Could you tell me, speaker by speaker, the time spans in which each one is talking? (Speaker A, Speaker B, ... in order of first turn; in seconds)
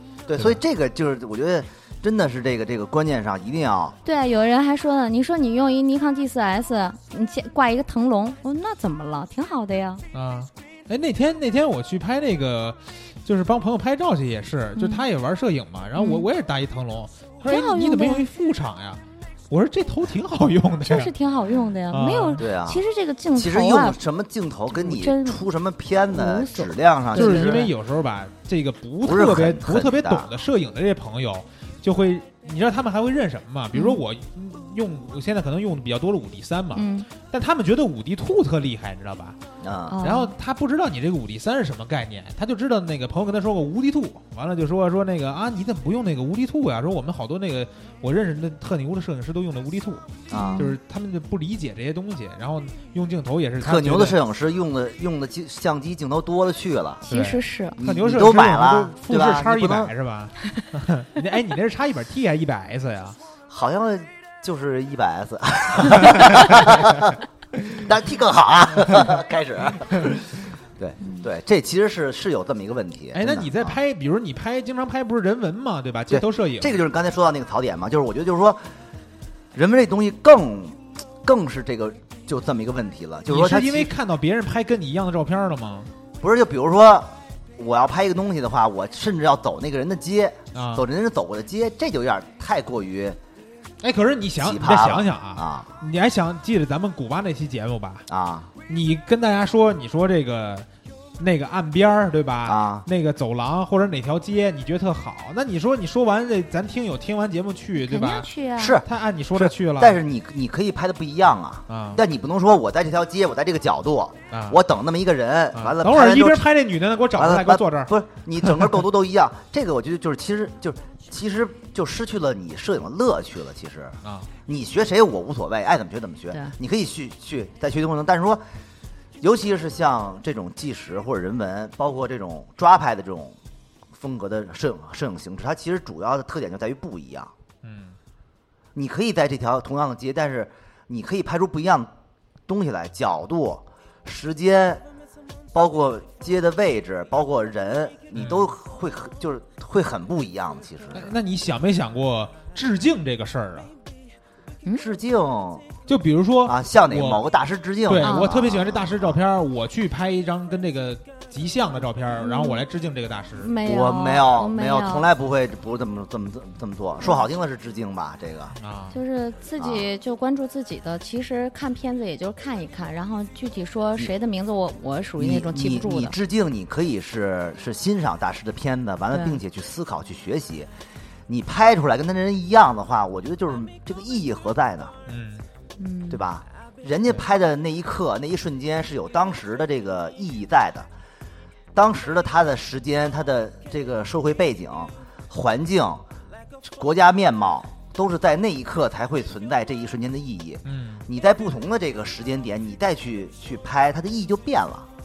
Speaker A: 0.3-4.0, 22.4-22.8, 23.4-27.7, 29.0-30.3, 39.6-40.0, 50.3-50.6, 53.6-57.1, 57.8-59.9, 63.5-67.2, 67.7-73.8, 76.1-78.6, 79.5-83.9, 86.2-93.2, 94.4-95.7, 98.1-98.5, 102.4-102.8, 108.6-116.5, 117.1-128.4, 129.2-133.4, 133.9-137.3, 138.7-141.9, 142.5-144.8, 145.5-151.2, 154.7-155.7, 156.4-159.2, 163.6-168.5, 169.6-169.9, 175.2-180.7, 181.3-184.9, 186.1-190.9, 191.7-196.0, 196.6-204.9
Speaker B: 4.0-10.0, 14.8-15.0, 15.9-16.2, 17.4-18.3, 20.8-24.0, 24.7-25.4, 26.1-27.7, 33.7-34.0, 36.7-37.1, 39.9-40.3, 50.3-50.7, 57.1-57.8, 107.8-108.8, 158.0-158.3, 162.2-162.6, 163.4-165.1, 168.9-176.2, 179.1-179.4, 185.8-186.2
Speaker C: 10.1-21.1, 21.9-22.4, 27.1-39.4, 40.0-54.2, 57.1-63.2, 73.1-76.8, 83.3-85.9, 90.5-90.8, 93.8-98.0, 98.7-100.7, 101.2-108.3, 108.8-110.0, 111.7-112.0, 114.3-114.6, 115.5-117.9, 118.4-118.8, 137.6-137.9, 148.1-148.5, 150.9-153.7, 155.9-157.2, 157.8-163.5, 168.6-169.0, 185.1-185.4, 200.7-201.0